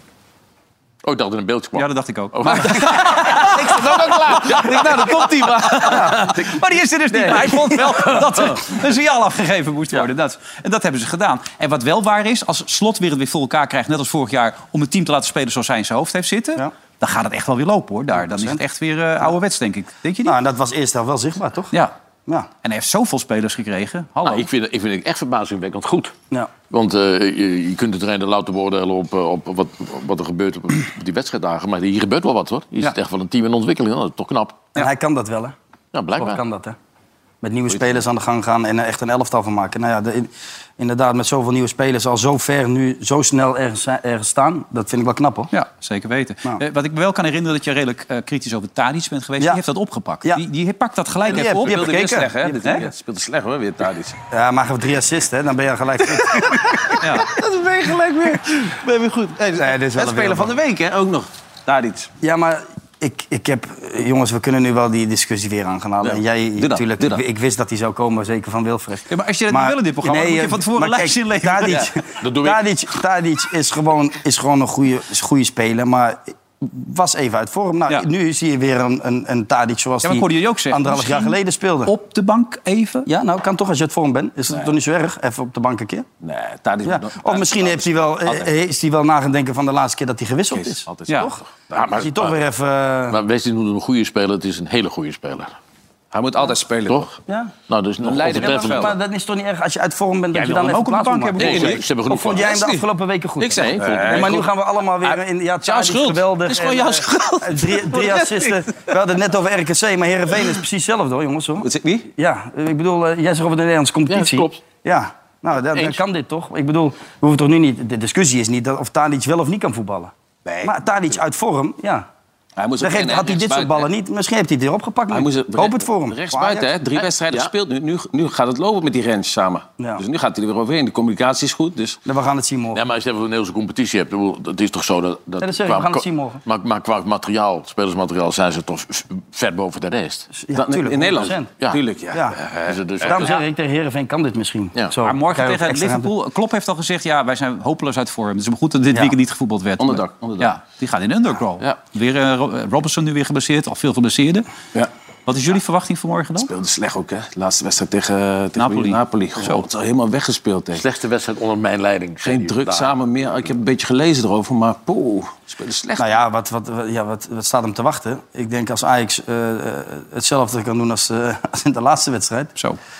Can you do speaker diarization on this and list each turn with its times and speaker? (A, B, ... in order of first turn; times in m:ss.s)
0:01.0-0:03.4 A
0:01.8-0:20.4 B
0:03.1-0:06.5 C
0:04.2-0:04.8 A
0:07.1-0:08.6 C
0:18.2-0:18.6 D
0:20.2-0:21.7 D
0:22.6-0:24.5 B
0:24.2-0:26.1 A
0:26.7-0:34.6 A
0:34.7-0:35.5 D
0:35.9-0:36.4 A
0:36.2-0:36.8 D
0:37.4-0:45.5 D
0:45.5-0:52.9 B
0:51.2-0:52.6 D
0:51.3-0:54.2 C
0:54.3-0:57.0 D
0:56.2-1:02.1 C
0:57.0-0:57.3 B
0:59.5-1:00.6 D
1:02.2-1:21.9 D
1:06.0-1:07.2 C
1:09.1-1:11.8 B
1:12.2-1:12.6 A
1:20.0-1:23.1 B
1:23.0-1:26.1 D
1:26.2-1:28.5 C
1:26.8-1:31.4 D
1:30.5-1:32.1 C
1:31.1-1:31.3 B
1:31.8-1:32.2 A
1:32.0-1:33.2 D
1:33.1-1:35.5 A
1:36.1-1:37.2 C
1:37.7-1:38.9 A
1:38.0-1:39.0 C
1:38.3-2:00.1 D
1:40.3-1:41.8 B
1:41.4-1:42.6 A
1:41.4-1:42.8 C
1:43.4-1:44.5 C
1:43.5-1:44.4 A
1:45.0-1:48.6 C
1:51.6-1:52.1 C
1:54.1-1:54.6 A
2:00.4-2:00.8 C
2:00.6-2:02.1 D
2:02.6-2:03.9 C
2:02.8-2:06.7 D
2:05.1-2:12.0 C
2:12.0-2:12.8 D
2:12.7-2:20.3 A
2:15.4-2:16.4 D
2:20.4-2:21.5 D
2:20.5-2:23.3 C
2:22.1-2:22.4 D
2:22.6-2:23.4 A
2:23.0-2:26.1 D
2:25.0-2:34.4 B
2:29.8-2:30.5 C
2:35.3-2:36.5 B
2:36.4-2:40.8 C
2:38.6-2:39.7 B
2:40.7-2:42.9 A
2:42.2-2:46.1 C
2:46.0-2:52.5 D